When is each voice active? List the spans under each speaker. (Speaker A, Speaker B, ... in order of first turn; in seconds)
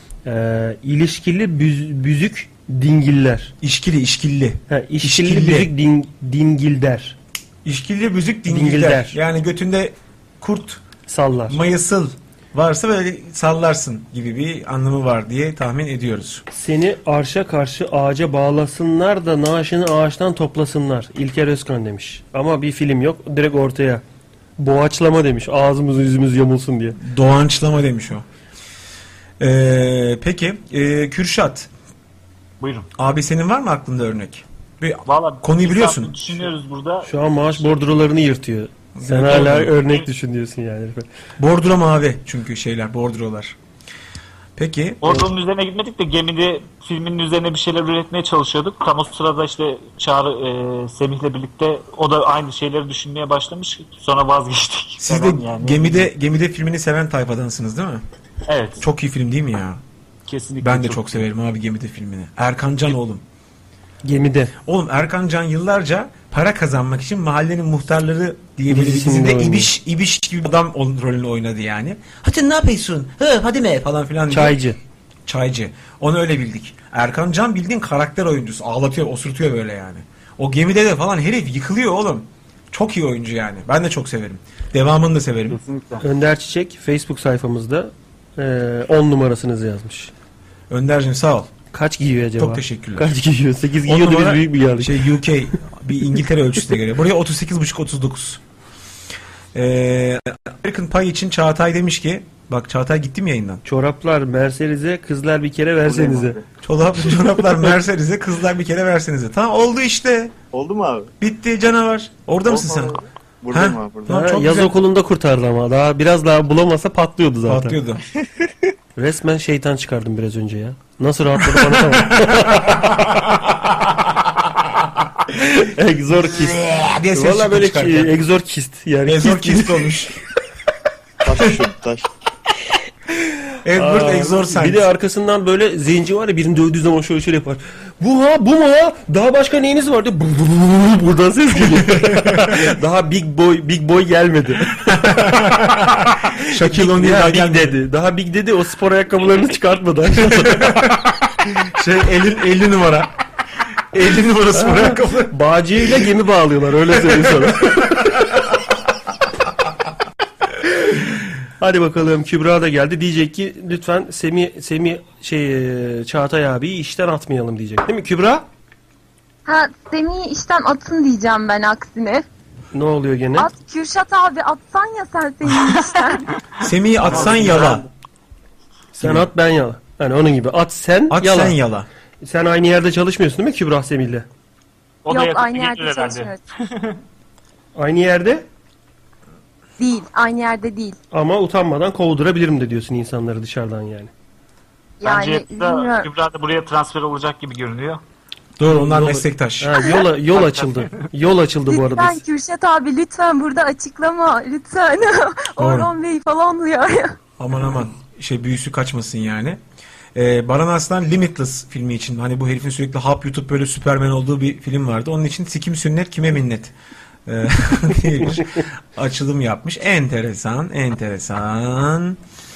Speaker A: 0.3-3.5, 4.7-7.2, 8.5-9.2, 11.1-11.6, 16.5-24.0, 24.6-27.0, 37.0-41.1, 64.0-64.5, 68.7-69.7, 74.3-74.8, 86.0-90.1, 91.7-95.1, 103.7-106.4, 114.1-117.8, 119.0-123.1, 125.3-129.8, 133.7-145.6, 146.2-150.9, 154.5-158.2, 161.6-168.5, 172.7-173.5, 178.9-181.6, 182.2-184.3, 187.8-188.4, 191.1-194.1, 198.7-202.2
Speaker B: 3.6-5.7, 7.7-10.8, 11.5-16.4, 27.0-28.3, 29.4-31.7, 33.0-36.5, 38.9-39.8, 41.4-43.6, 44.6-45.2, 55.0-58.0, 58.8-59.8, 60.6-63.2, 64.7-74.6, 75.3-85.6, 90.7-91.5, 92.4-93.1, 93.8-98.4, 99.5-103.6, 106.6-110.4, 111.2-113.0, 113.5-114.8, 117.5-118.0, 126.2-128.2, 129.1-130.2, 133.6-134.9, 141.9-142.5, 144.8-147.8, 150.3-153.1, 153.9-155.4, 157.1-157.8, 176.6-177.9, 179.0-179.3, 181.1-181.9, 198.6-199.8, 205.6-205.9, 207.4-209.6, 210.1-216.7, 217.3-222.2
Speaker C: 32.6-32.9, 35.1-37.7, 45.0-56.1, 58.5-58.9, 60.3-61.3, 85.6-85.9, 177.0-177.8, 185.1-186.9, 195.0-198.0, 200.3-200.9
Speaker D: 105.9-106.4, 110.5-111.1, 112.5-114.1, 131.2-132.1
Speaker E: 169.4-172.2, 173.4-176.3, 185.1-186.4, 189.8-191.0, 195.0-196.1, 201.7-207.2